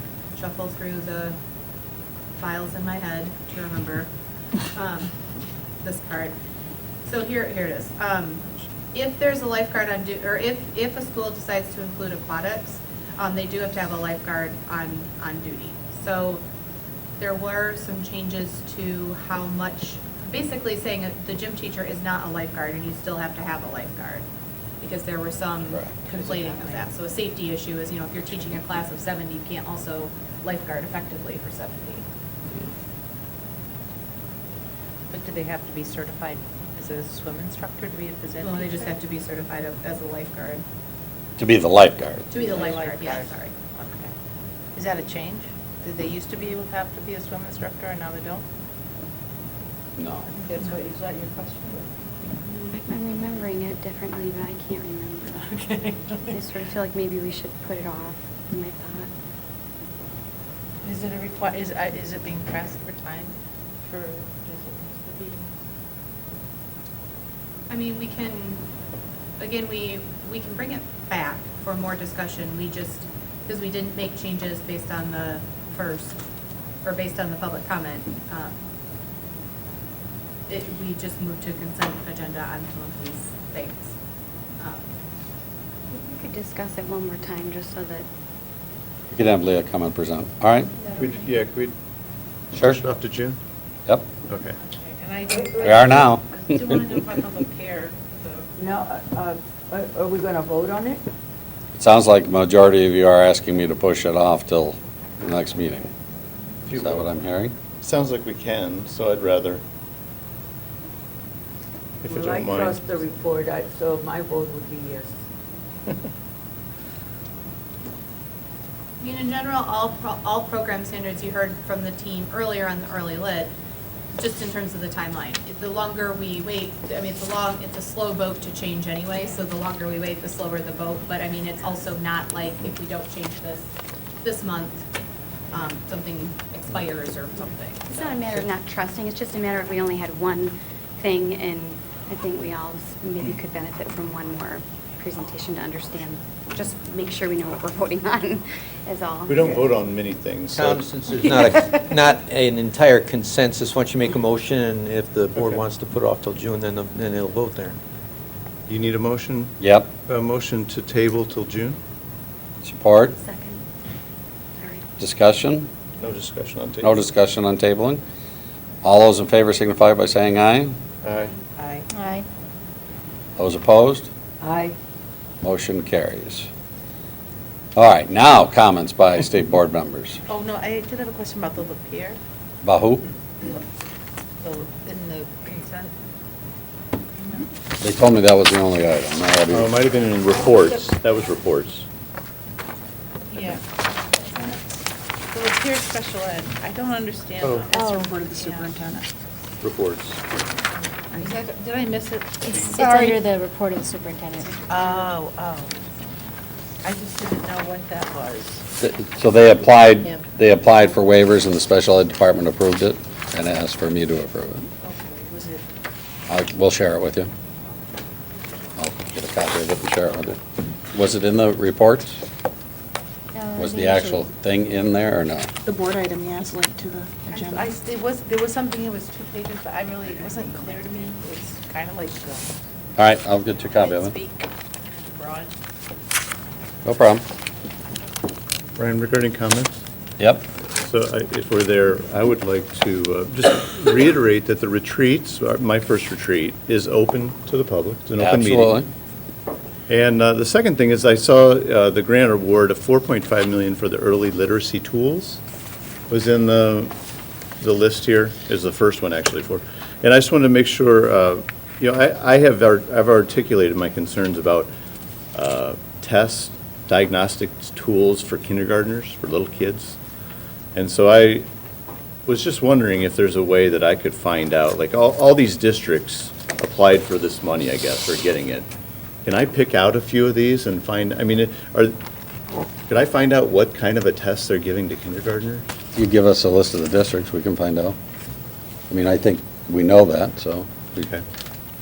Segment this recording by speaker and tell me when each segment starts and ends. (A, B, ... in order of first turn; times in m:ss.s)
0:00.3-0:01.4 A
0:02.4-0:04.1 A
0:04.7-0:05.1 A
0:05.8-0:06.3 A
0:07.0-0:16.4 A
0:17.2-0:24.2 A
0:24.8-0:32.0 A
0:26.1-0:26.8 B
0:35.1-0:38.9 B
0:38.4-0:40.6 A
0:41.4-0:42.3 C
0:42.3-0:43.5 A
0:42.4-0:44.1 B
0:44.7-0:48.4 B
0:50.0-0:50.3 C
0:50.3-0:51.8 B
0:52.4-0:55.5 D
0:55.4-0:56.5 B
0:56.2-0:59.1 D
1:00.8-1:03.3 B
1:03.8-1:05.5 B
1:07.7-1:08.6 A
1:09.4-1:16.2 A
1:16.8-1:18.5 A
1:20.5-1:23.9 A
1:24.6-1:24.9 A
1:25.9-1:28.0 D
1:29.1-1:30.7 C
1:31.0-1:31.7 E
1:32.5-1:33.4 E
1:32.5-1:32.8 C
1:34.3-1:34.5 E
1:34.6-1:38.5 B
1:35.6-1:36.8 C
1:38.6-1:41.0 F
1:41.7-1:45.9 C
1:46.7-1:47.1 E
1:46.7-1:47.5 C
1:47.8-1:49.6 E
1:52.0-1:52.8 E
1:52.0-1:55.1 F
1:59.0-2:03.5 A
2:04.2-2:13.7 A
2:14.2-2:14.8 A
2:15.5-2:18.4 A
2:17.9-2:29.7 D
2:29.3-2:30.8 E
2:30.6-2:37.7 G
2:35.4-2:35.6 E
2:38.7-2:39.5 E
2:39.6-2:39.9 C
2:40.0-2:41.8 E
2:42.6-2:43.2 C
2:43.2-2:43.6 D
2:44.6-2:44.8 D
2:45.0-2:45.7 C
2:46.0-2:47.0 E
2:46.8-2:48.0 C
2:48.8-2:50.8 C
2:51.0-2:51.3 E
2:51.6-2:51.9 B
2:51.9-2:52.2 H
2:53.4-2:54.1 C
2:54.4-2:54.8 F
2:55.4-2:56.5 C
2:57.8-3:00.2 C
3:00.3-3:02.2 B
3:02.6-3:03.1 C
3:04.4-3:05.9 B
3:07.2-3:07.5 B
3:07.8-3:09.8 C
3:09.5-3:11.8 E
3:13.3-3:13.6 B
3:14.2-3:14.6 B
3:15.3-3:18.8 B
3:17.4-3:17.7 E
3:17.7-3:19.1 I
3:17.8-3:18.1 H
3:19.6-3:20.2 E
3:21.1-3:23.2 B
3:22.4-3:24.6 H
3:22.4-3:22.8 E
3:24.6-3:25.8 B
3:26.8-3:28.6 B
3:28.8-3:34.7 C
3:34.8-3:35.6 B
3:36.3-3:37.3 C
3:38.8-3:40.4 C
3:40.9-3:42.2 C
3:43.3-3:44.2 H
3:43.6-3:45.5 C
3:45.6-3:47.7 I
3:47.3-3:52.5 B
3:53.0-3:54.2 C
3:53.8-3:55.5 B
3:56.8-3:57.2 C
3:58.8-3:59.8 E
4:00.2-4:00.4 C
4:00.8-4:08.8 E
4:08.2-4:08.9 C
4:09.9-4:15.4 E
4:16.1-4:16.9 E
4:17.6-4:24.7 E
4:25.3-4:30.0 E
4:30.7-4:31.4 E
4:32.2-4:38.7 E
4:39.2-4:42.0 E
4:42.9-4:45.6 E
4:45.9-4:48.0 C
4:48.9-4:51.1 C